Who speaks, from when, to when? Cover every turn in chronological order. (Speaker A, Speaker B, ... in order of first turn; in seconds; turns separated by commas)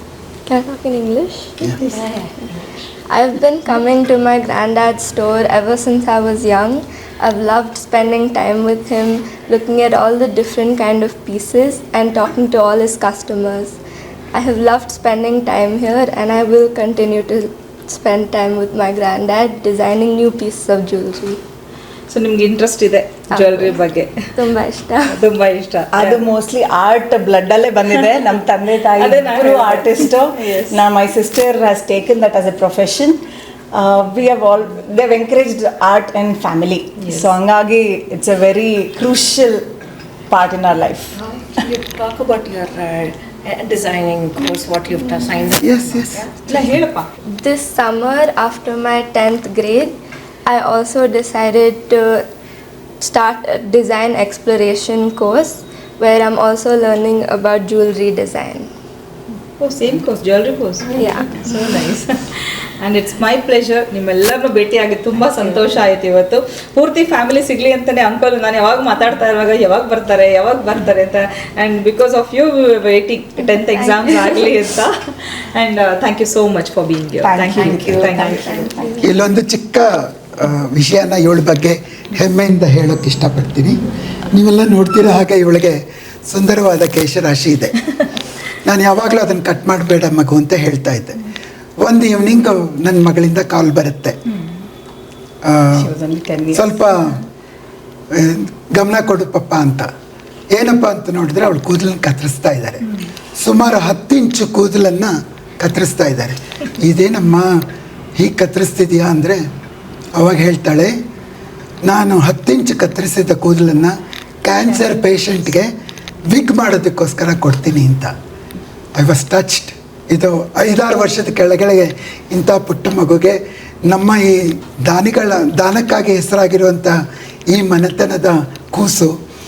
Speaker A: 0.5-1.8, Speaker B: 1.8-2.5, Speaker A: 3.1-13.8, Speaker A: 14.3-21.4, Speaker C: 22.1-24.1, Speaker A: 23.3-25.2, Speaker C: 25.1-26.2, Speaker D: 25.9-33.2, Speaker C: 28.9-30.8, Speaker D: 33.7-39.6, Speaker C: 37.0-37.3, Speaker D: 40.3-41.1, Speaker B: 41.2-46.7, Speaker E: 45.6-46.2, Speaker C: 46.4-47.1, Speaker A: 47.4-49.9, Speaker A: 50.5-52.2, Speaker A: 53.0-58.7, Speaker C: 59.6-78.5, Speaker A: 60.9-61.4, Speaker A: 73.4-74.5, Speaker D: 77.2-79.0, Speaker A: 78.1-79.1, Speaker E: 79.0-83.8, Speaker E: 84.3-87.8, Speaker E: 88.6-91.2, Speaker E: 91.8-94.2, Speaker E: 95.5-95.9, Speaker D: 95.9-96.5, Speaker E: 96.5-97.2, Speaker E: 98.1-99.9, Speaker E: 100.5-102.8, Speaker E: 103.4-107.5, Speaker E: 108.2-109.4, Speaker E: 110.2-110.9, Speaker E: 111.8-115.7, Speaker E: 116.3-118.1, Speaker E: 119.0-127.0, Speaker E: 127.5-129.1